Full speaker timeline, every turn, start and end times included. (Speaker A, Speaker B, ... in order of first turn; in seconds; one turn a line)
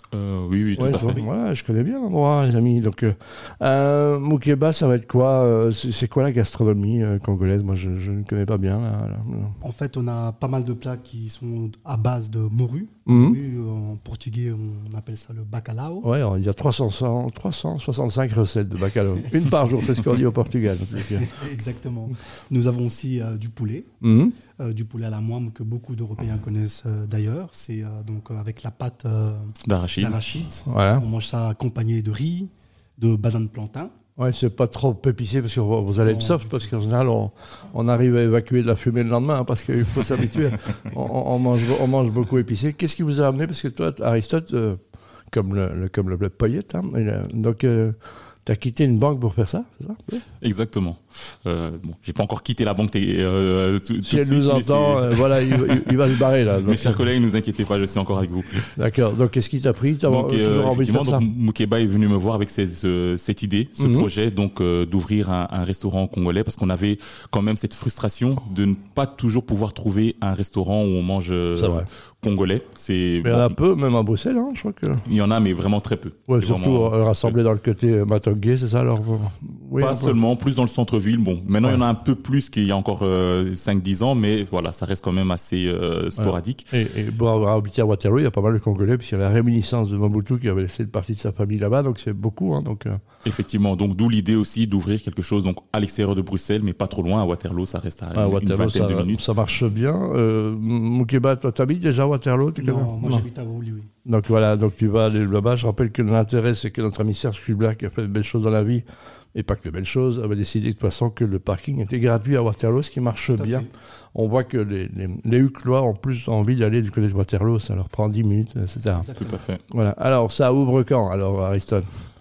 Speaker A: 0.1-1.2
Speaker B: 0.8-1.3
Speaker C: 0.8-9.6
Speaker B: 9.6-16.1
Speaker C: 13.1-13.4
Speaker C: 16.0-21.4
Speaker B: 20.9-23.9
Speaker C: 24.0-24.4
Speaker B: 24.6-33.9
Speaker A: 29.6-30.2
Speaker C: 30.7-31.0
Speaker C: 34.2-50.2
Speaker B: 36.0-36.7
Speaker A: 50.4-58.7
Speaker C: 54.0-57.0
Speaker C: 58.8-61.3
Speaker A: 60.1-73.6
Speaker C: 63.8-64.1
Speaker C: 71.6-71.9
Speaker C: 73.2-75.0
Speaker A: 75.0-77.4
Speaker C: 76.3-80.2
Speaker A: 79.8-86.7
Speaker C: 86.2-93.0
Speaker A: 93.2-99.2
Speaker C: 98.2-103.2
Speaker B: 102.6-103.9
Speaker C: 104.1-119.1
Speaker B: 113.3-113.7
Speaker B: 118.9-119.4
Speaker A: 119.2-119.6
Speaker C: 119.7-121.9